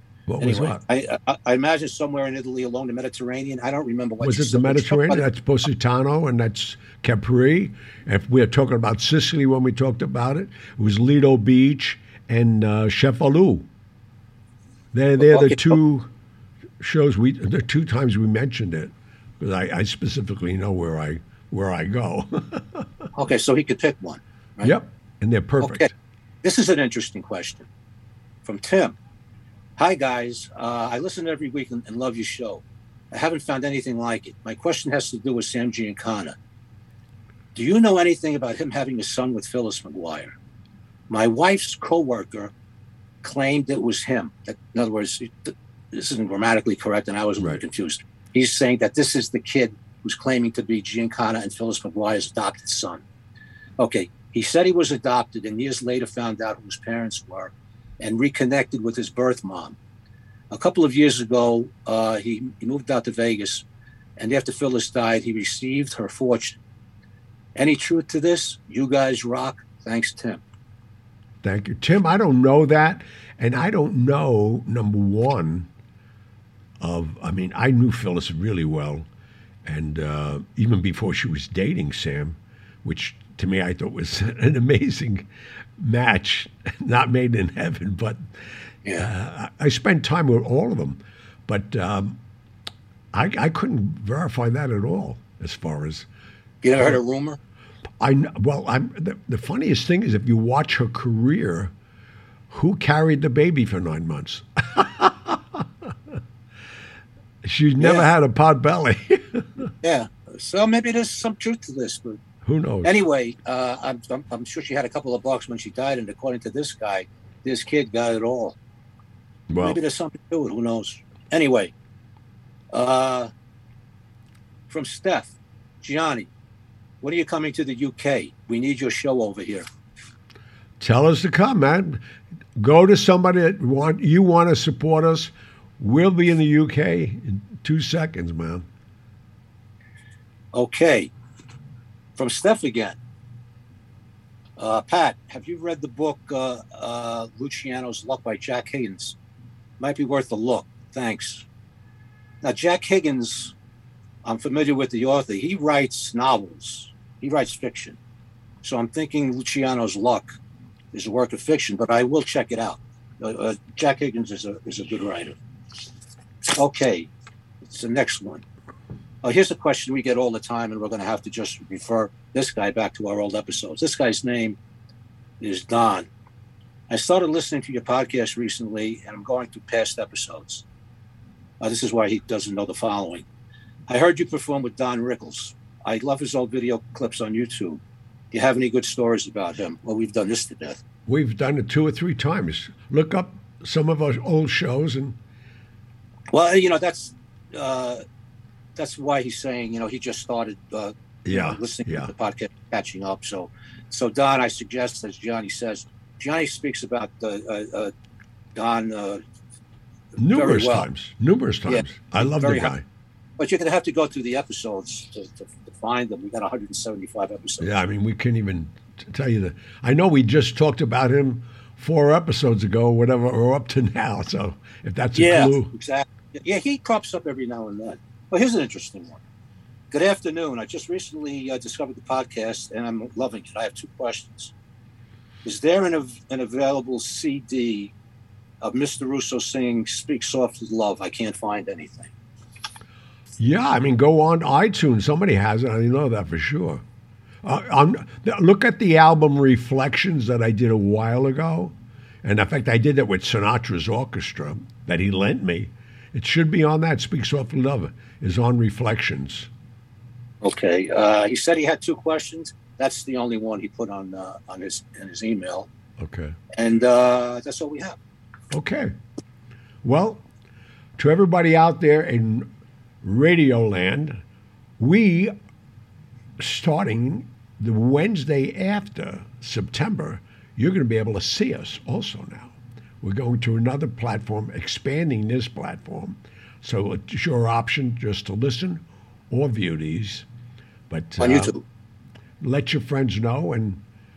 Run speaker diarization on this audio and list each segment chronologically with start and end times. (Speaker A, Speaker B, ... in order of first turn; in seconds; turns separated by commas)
Speaker A: 0.3-0.8, Speaker B: 0.4-5.2, Speaker A: 4.2-13.7, Speaker A: 14.9-16.1, Speaker B: 15.2-15.8, Speaker A: 16.8-22.9, Speaker B: 23.1-24.8, Speaker A: 24.6-25.9, Speaker B: 25.6-25.9, Speaker B: 26.4-27.7, Speaker B: 28.4-29.0, Speaker B: 29.8-36.4, Speaker B: 37.5-40.4, Speaker B: 41.1-42.5, Speaker B: 43.2-53.0, Speaker B: 53.8-59.8, Speaker B: 60.5-63.6, Speaker B: 64.2-66.6, Speaker B: 67.6-70.4, Speaker A: 71.4-75.7, Speaker A: 76.8-79.1, Speaker A: 79.7-85.3, Speaker A: 85.8-88.2, Speaker A: 89.0-92.2, Speaker A: 93.1-96.1, Speaker B: 96.6-97.4, Speaker A: 98.0-101.7, Speaker A: 102.5-106.2, Speaker A: 107.4-109.7, Speaker B: 107.8-108.1, Speaker B: 109.8-112.2, Speaker A: 112.4-112.9, Speaker B: 112.8-118.6, Speaker A: 119.5-119.8, Speaker B: 119.6-121.7, Speaker B: 122.7-123.3, Speaker B: 124.7-126.3, Speaker B: 127.0-129.7, Speaker A: 130.8-132.0, Speaker A: 132.6-138.7, Speaker B: 140.5-141.1, Speaker B: 142.2-143.0, Speaker B: 144.6-149.2, Speaker B: 149.8-151.5, Speaker B: 152.4-153.5, Speaker B: 154.2-158.0, Speaker B: 158.6-160.3, Speaker B: 160.9-165.4, Speaker B: 166.5-167.1, Speaker B: 167.6-168.4, Speaker B: 169.2-174.6, Speaker B: 175.4-176.1, Speaker B: 176.9-180.7, Speaker B: 181.6-183.2, Speaker B: 183.9-187.8, Speaker B: 188.3-190.8, Speaker A: 191.1-195.2, Speaker B: 196.3-198.0, Speaker B: 198.8-207.9, Speaker A: 201.2-202.1, Speaker B: 208.6-209.2, Speaker A: 210.2-212.8, Speaker B: 210.3-210.9, Speaker B: 211.7-212.7, Speaker B: 213.4-217.8, Speaker A: 217.6-225.7, Speaker B: 225.2-229.2, Speaker B: 229.9-234.5, Speaker B: 235.4-237.9, Speaker B: 238.6-242.1, Speaker A: 243.4-246.8, Speaker A: 247.4-259.5, Speaker B: 260.4-265.7, Speaker A: 266.0-266.4, Speaker B: 266.6-268.0, Speaker A: 268.5-268.9, Speaker A: 269.8-270.3, Speaker A: 271.0-272.5, Speaker A: 273.0-274.2, Speaker A: 274.8-275.4, Speaker A: 276.4-290.3, Speaker A: 290.9-291.5, Speaker B: 291.2-291.6, Speaker A: 292.4-293.8